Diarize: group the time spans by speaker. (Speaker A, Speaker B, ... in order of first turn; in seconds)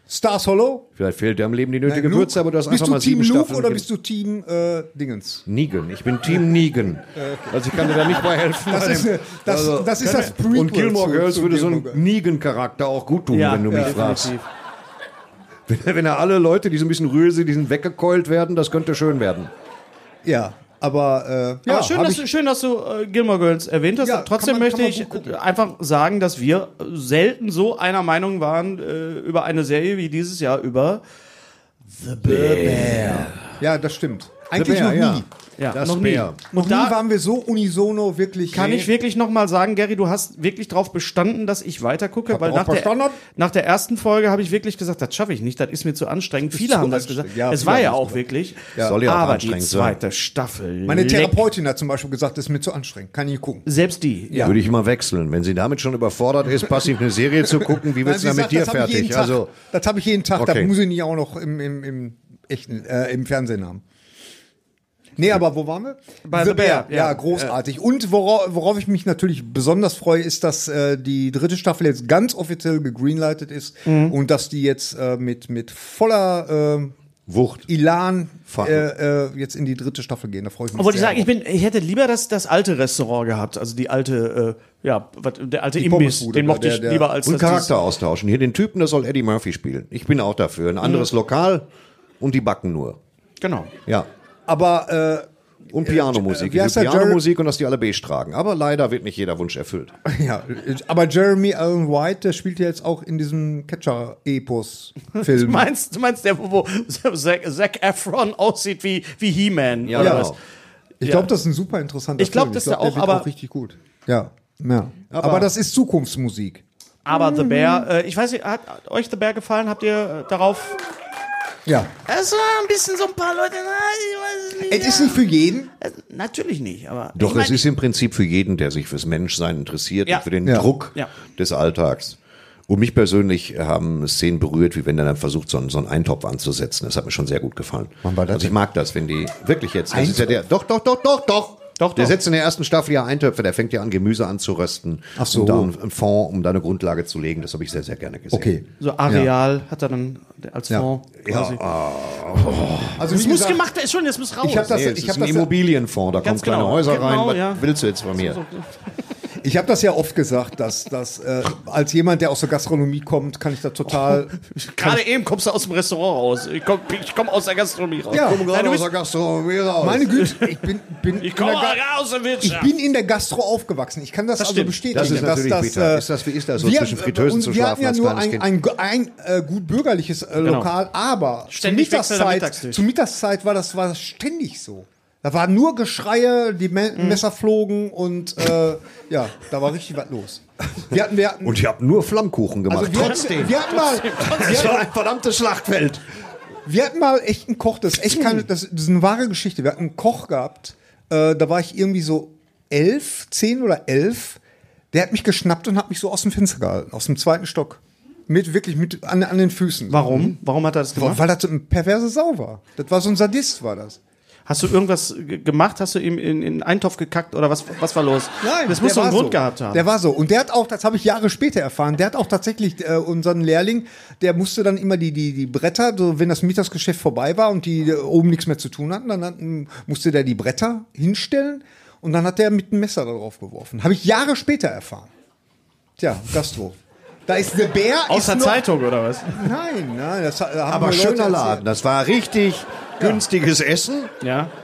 Speaker A: 0.1-0.9, 1.9-5.4, 7.1-12.0, 13.7-14.0, 20.2-22.2, 24.0-25.4, 32.3-35.3, 36.5-38.9, 42.3-43.2, 46.5-48.2, 50.9-53.6, 54.3-54.6, 58.0-63.8, 65.2-76.9, 77.7-81.3, 85.8-87.1, 94.5-97.2, 100.0-105.7, 110.0-110.3, 111.0-117.9, 121.7-121.9, 124.7-125.7, 138.0-138.5, 139.9-140.4, 145.2-145.7, 148.3-149.3, 152.9-153.6, 154.4-155.5, 159.4-165.0, 168.1-168.4, 169.8-171.8, 172.4-191.6, 192.7-194.9, 196.6-204.4, 204.9-210.4, 210.9-214.0, 218.4-235.1, 236.0-238.6, 239.3-241.6
Speaker B: 0.9-3.8, 5.5-14.3, 15.7-19.5, 32.2-33.4, 34.5-36.4, 48.8-50.0, 54.4-59.5, 60.4-60.7, 77.3-77.7, 78.5-78.8, 87.2-91.6, 92.2-93.0, 95.7-99.9, 109.8-110.4, 115.1-115.5, 127.2-148.5, 151.2-153.0, 154.7-158.4, 168.1-170.1, 174.9-178.5, 191.4-196.0, 240.7-244.1
Speaker C: 13.3-14.4, 21.7-31.0, 32.1-33.2, 35.6-37.0, 38.5-51.4, 53.6-54.5, 66.2-67.5, 73.8-74.1, 80.8-87.7, 90.8-91.1, 93.4-93.7, 105.1-110.3, 111.0-111.3, 112.2-113.3, 117.1-120.8, 122.1-125.2, 125.8-127.6, 141.8-142.2, 148.8-151.6, 153.1-154.7, 156.2-157.6, 158.1-158.7, 163.9-168.8, 170.2-170.6, 171.2-172.7, 174.4-175.3, 180.4-180.7, 181.5-182.8, 186.9-187.2, 193.0-194.8, 209.9-211.2, 214.5-219.8, 238.1-239.4, 244.2-244.5